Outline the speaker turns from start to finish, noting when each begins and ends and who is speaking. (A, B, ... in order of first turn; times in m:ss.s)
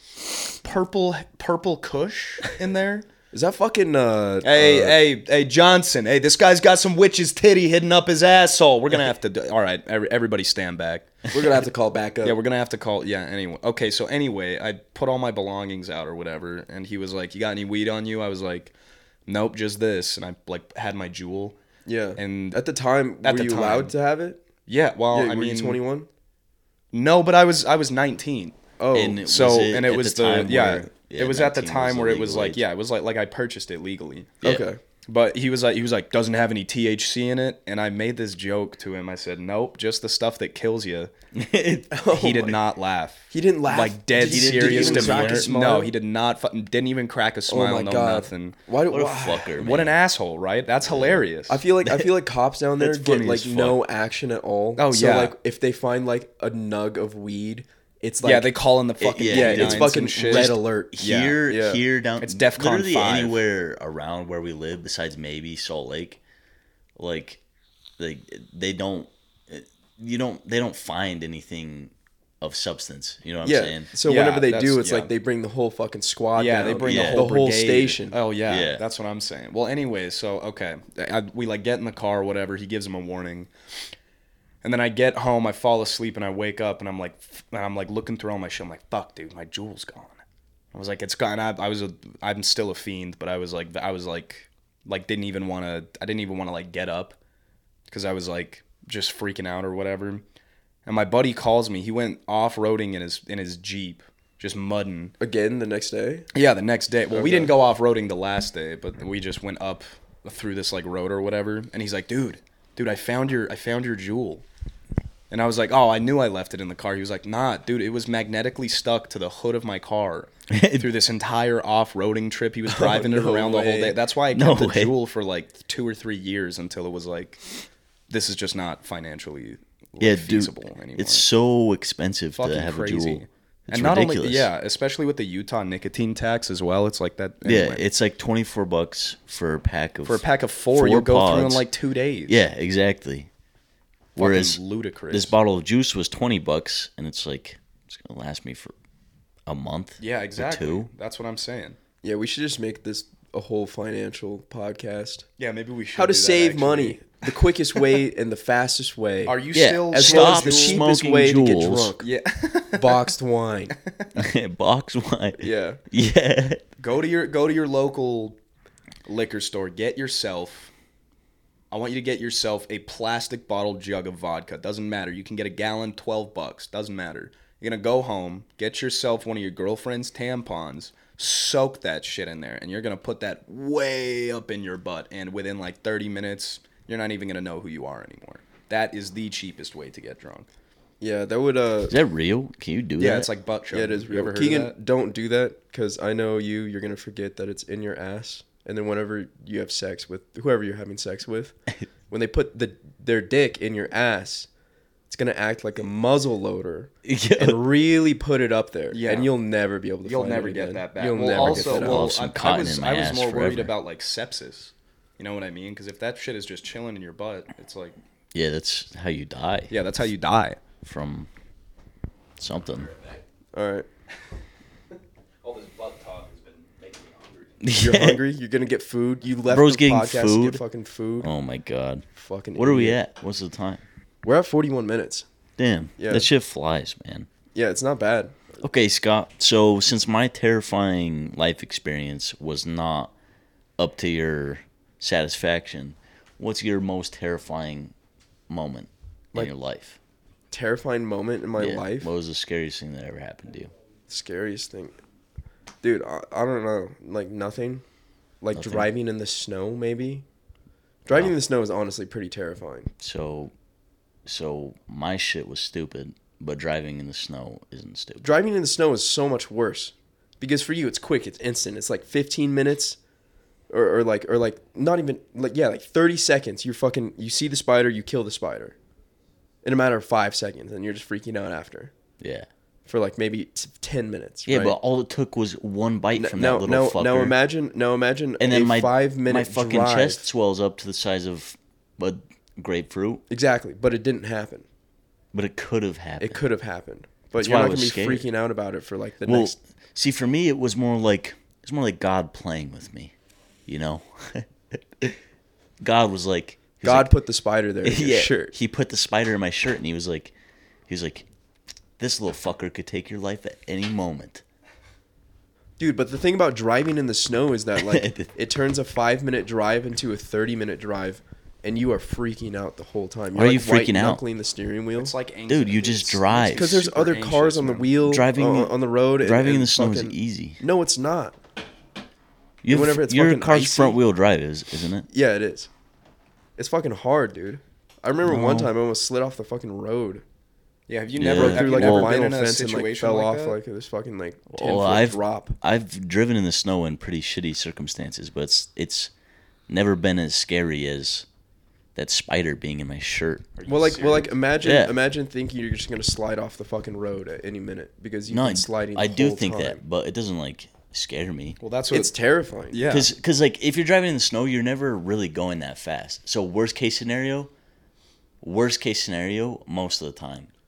0:00.6-0:03.0 A
0:03.3-0:05.0 B
0:04.4-0:11.4 A
0:11.3-0:12.4 B
0:12.2-0:18.7 A
0:19.3-0:21.6 A
0:21.9-0:24.4 B
0:22.2-0:22.6 A
0:23.2-0:23.9 A
0:24.7-0:25.8 A
0:25.1-0:26.1 B
0:26.9-0:28.6 A
0:28.8-0:29.2 B
0:28.9-0:32.6 C
0:29.2-0:34.4 A
0:34.4-0:34.7 C
0:34.4-0:34.8 B
0:35.1-0:41.1 A
0:41.3-0:41.9 C
0:41.9-0:42.6 B
0:42.0-0:48.6 A
0:43.3-0:45.9 B
0:44.2-0:45.5 C
0:47.5-0:49.7 B
0:48.9-0:50.0 C
0:49.6-0:51.6 A
0:50.8-0:51.2 C
0:51.5-0:58.5 B
0:52.8-0:53.8 A
0:54.8-0:55.3 A
0:58.2-1:01.4 A
0:59.0-1:06.2 C
0:59.2-1:00.9 B
1:01.4-1:01.8 B
1:02.2-1:03.4 A
1:07.0-1:07.4 C
1:08.0-1:13.9 C
1:13.4-1:18.2 B
1:14.0-1:15.1 A
1:16.3-1:23.5 A
1:16.8-1:17.3 C
1:18.5-1:18.8 C
1:24.6-1:30.2 A
1:30.7-1:37.2 A
1:37.9-1:40.2 A
1:40.8-1:45.1 A
1:45.2-1:46.3 B
1:46.3-1:54.4 A
1:47.1-1:47.5 B
1:55.3-2:07.4 A
2:00.5-2:00.9 C
2:02.6-2:04.0 B
2:04.3-2:04.9 C
2:08.1-2:11.3 A
2:10.0-2:14.5 C
2:12.4-2:17.8 A
2:17.4-2:21.6 C
2:20.0-2:22.4 A
2:22.3-2:23.3 C
2:24.2-2:25.3 A
2:24.2-2:24.6 C
2:25.1-2:28.7 C
2:29.5-2:30.9 C
2:30.0-2:31.8 A
2:32.0-2:35.3 B
2:35.4-2:38.0 A
2:35.9-2:39.4 B
2:39.2-2:40.8 A
2:39.5-2:41.9 C
2:39.9-2:42.1 B
2:42.0-2:43.0 A
2:42.7-2:43.7 B
2:43.7-2:44.1 A
2:44.1-2:46.6 C
2:45.4-2:45.8 B
2:46.8-2:48.4 A
2:49.0-2:50.7 A
2:51.7-3:10.5 A
3:11.0-3:11.9 B
3:11.9-3:13.3 C
3:13.0-3:14.7 A
3:13.7-3:21.6 B
3:22.1-3:24.5 B
3:25.1-3:32.1 B
3:27.0-3:27.6 C
3:28.9-3:29.3 A
3:30.0-3:38.0 A
3:31.3-3:33.7 C
3:38.3-3:39.8 C
3:39.7-3:40.6 A
3:40.8-3:41.3 C
3:42.4-3:42.9 C
3:43.5-3:43.9 B
3:45.4-3:47.5 A
3:47.6-3:48.2 C
3:47.8-3:51.3 B
3:49.5-3:50.6 C
3:51.2-3:53.8 C
3:52.1-3:53.0 B
3:54.2-3:55.3 B
3:55.6-3:57.3 C
3:56.0-3:56.3 B
3:57.5-3:58.6 B
3:58.6-4:03.1 C
4:03.8-4:07.9 C
4:08.5-4:10.0 C
4:10.5-4:12.1 B
4:11.6-4:13.7 C
4:14.1-4:15.0 B
4:15.8-4:17.8 B
4:18.4-4:20.2 B
4:18.5-4:18.9 C
4:21.0-4:22.9 B
4:21.1-4:21.3 C
4:23.0-4:23.5 C
4:24.2-4:28.3 C
4:28.2-4:33.0 B
4:33.7-4:38.8 B
4:39.6-4:41.9 B
4:42.2-4:42.5 C
4:42.8-4:44.7 B
4:44.5-4:47.4 C
4:46.2-4:50.2 B
4:48.4-4:53.2 C
4:53.3-4:54.7 B
4:55.3-4:56.4 C
4:56.2-4:59.5 B
4:57.4-4:58.2 C
4:59.2-5:03.1 C
5:03.7-5:05.2 C
5:05.8-5:07.1 C
5:06.8-5:08.5 B
5:07.8-5:10.3 C
5:10.9-5:11.3 C
5:12.0-5:14.4 C
5:15.8-5:25.1 B
5:17.8-5:18.3 C
5:23.3-5:24.2 C
5:24.9-5:27.9 A
5:25.5-5:26.8 C
5:26.5-5:31.4 B
5:28.0-5:30.6 C
5:32.6-5:35.1 C
5:32.7-5:34.0 B
5:35.1-5:35.7 B
5:36.6-5:40.2 B
5:38.3-5:38.6 C
5:40.9-5:43.6 A
5:41.2-5:42.1 C
5:41.3-5:45.6 B
5:44.5-5:49.1 C
5:49.7-5:51.2 C
5:51.9-5:53.5 C
5:53.6-5:54.3 A
5:53.7-5:59.8 B
5:54.6-5:54.9 C
5:58.3-6:01.6 C
6:01.6-6:02.1 A
6:01.9-6:02.8 B
6:02.7-6:03.1 A
6:02.8-6:07.5 C
6:08.4-6:10.5 C